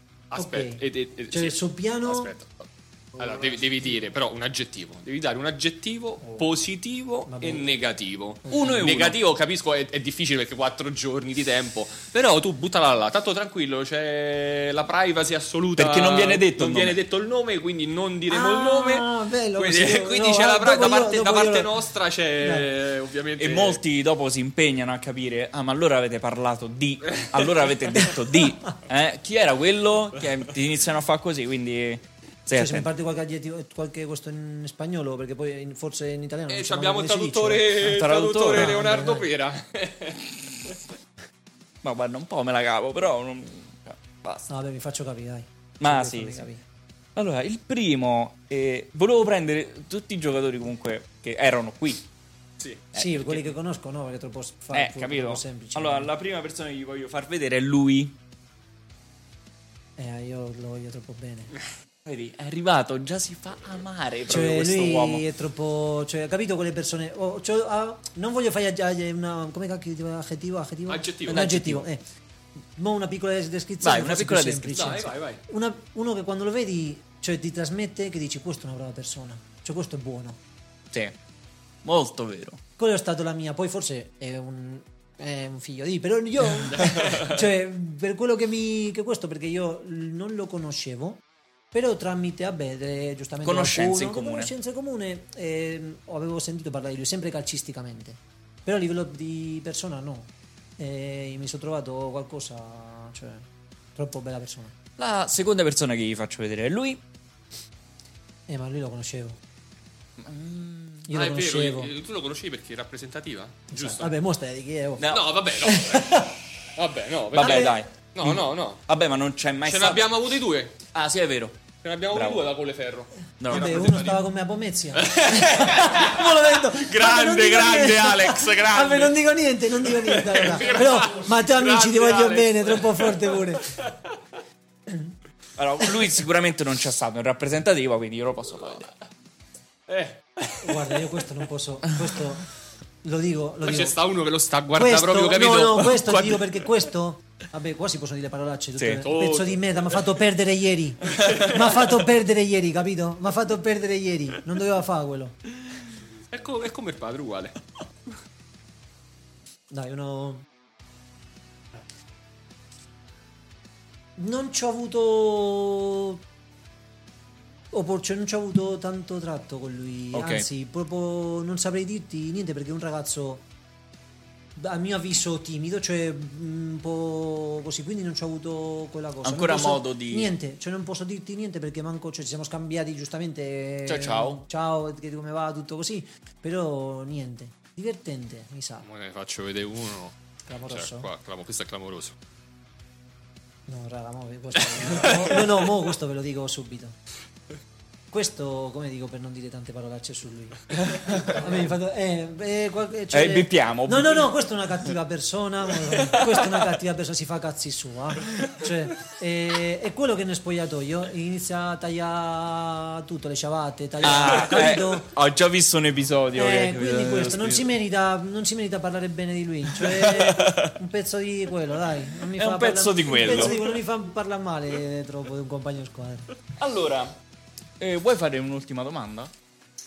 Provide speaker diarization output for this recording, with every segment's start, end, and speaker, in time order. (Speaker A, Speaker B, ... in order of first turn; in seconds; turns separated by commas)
Speaker A: 0.3-23.8, Speaker B: 0.3-2.3, Speaker B: 7.3-7.7, Speaker B: 8.5-8.9, Speaker C: 8.5-9.2, Speaker C: 15.8-17.0, Speaker B: 18.3-21.7, Speaker B: 22.4-22.7, Speaker C: 23.4-32.9, Speaker A: 27.2-27.5, Speaker B: 32.5-37.9, Speaker A: 36.5-40.3, Speaker C: 37.8-38.8, Speaker B: 38.5-39.3, Speaker C: 41.8-44.5, Speaker B: 44.5-46.6, Speaker C: 45.8-46.5, Speaker C: 47.1-52.1, Speaker C: 52.9-53.5, Speaker B: 52.9-56.1, Speaker C: 54.7-58.1, Speaker B: 60.0-61.5, Speaker C: 62.1-65.2, Speaker B: 64.3-72.0, Speaker A: 70.9-71.6, Speaker C: 71.3-71.8, Speaker B: 72.8-80.4, Speaker C: 73.8-74.9, Speaker A: 74.7-75.4, Speaker C: 81.8-82.6, Speaker B: 82.8-104.8, Speaker A: 86.7-87.2, Speaker C: 93.4-94.5, Speaker C: 105.0-107.0, Speaker B: 108.5-109.4, Speaker C: 110.2-111.1, Speaker B: 111.1-111.9, Speaker A: 111.1-114.1, Speaker B: 113.7-115.1, Speaker C: 115.0-115.5, Speaker A: 115.1-118.8, Speaker B: 115.8-116.3, Speaker C: 117.3-120.1, Speaker B: 117.4-117.8, Speaker A: 119.6-120.8, Speaker C: 120.9-121.6, Speaker A: 121.8-124.2, Speaker C: 122.1-122.5, Speaker C: 123.4-124.0, Speaker B: 123.5-133.7, Speaker A: 124.9-129.1, Speaker A: 129.9-133.9, Speaker B: 134.9-135.1, Speaker C: 135.6-138.9, Speaker A: 139.9-140.9, Speaker B: 140.6-142.5, Speaker B: 143.0-144.0, Speaker A: 143.6-146.7, Speaker B: 144.7-155.4, Speaker C: 148.8-149.1, Speaker A: 149.0-150.1, Speaker A: 151.2-151.6, Speaker A: 156.3-157.6, Speaker B: 159.7-160.4, Speaker B: 164.2-166.2, Speaker B: 167.7-173.4, Speaker C: 170.1-170.4, Speaker B: 174.6-188.9, Speaker C: 179.2-180.3, Speaker C: 183.9-184.4, Speaker A: 188.8-190.2, Speaker B: 190.5-191.1, Speaker A: 190.7-192.2, Speaker B: 193.7-197.0, Speaker B: 198.1-215.1, Speaker C: 200.9-201.3, Speaker C: 203.1-204.3, Speaker C: 214.0-217.7, Speaker B: 216.3-226.3, Speaker C: 219.8-220.8, Speaker C: 222.4-223.6, Speaker C: 226.6-227.2, Speaker C: 227.8-229.3